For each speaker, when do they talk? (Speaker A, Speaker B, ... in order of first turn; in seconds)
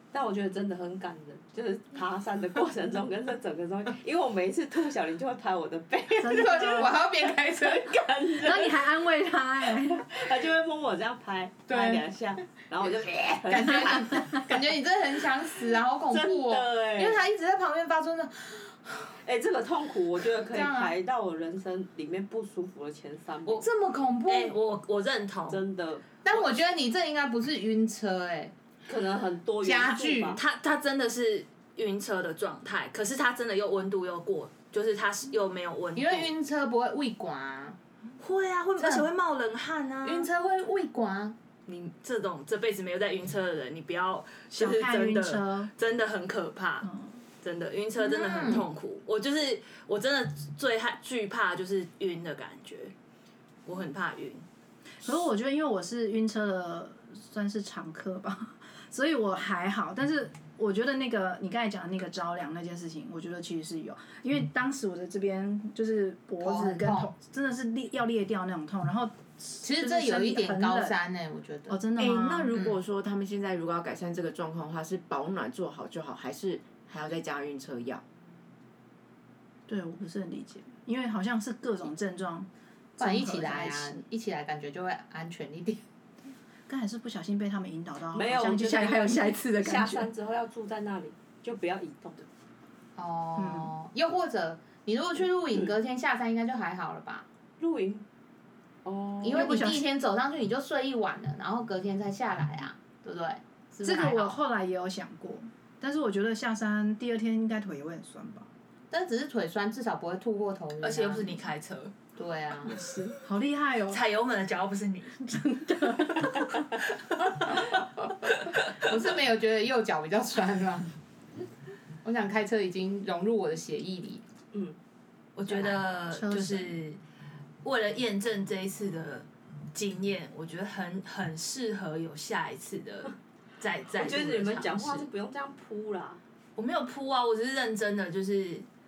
Speaker A: 0.1-6.9, 7.6-8.8, 9.8-14.4, 16.1-17.2, 19.2-23.7, 25.5-26.1, 28.9-30.4, 88.1-92.3, 97.6-98.1, 98.8-99.5, 133.9-136.2
Speaker B: 6.2-7.0, 8.4-10.1, 44.5-45.7, 46.8-47.1, 55.0-71.0, 71.7-72.5, 79.7-84.0, 86.7-90.1, 93.4-93.7, 99.3-99.9, 103.8-108.5, 112.8-114.0, 115.5-116.2, 126.1-126.8
Speaker C: 6.3-8.0, 11.7-12.0, 13.1-19.1, 20.5-20.9, 23.6-24.6, 26.2-28.5, 29.6-30.4, 36.0-37.8, 38.8-39.1, 40.0-41.4, 48.0-48.6, 66.4-67.1, 69.6-71.8, 72.5-72.8, 83.0-85.8, 93.0-97.3, 99.2-104.4, 108.9-111.4, 112.2-112.8, 118.8-120.9, 122.0-124.2
Speaker D: 24.3-25.6, 30.4-36.3, 38.2-40.3, 41.7-46.9, 47.4-52.9, 53.7-54.5, 110.8-111.9, 113.9-115.5, 117.0-117.7, 125.4-127.0, 127.6-135.1, 136.6-138.7
Speaker E: 72.0-78.0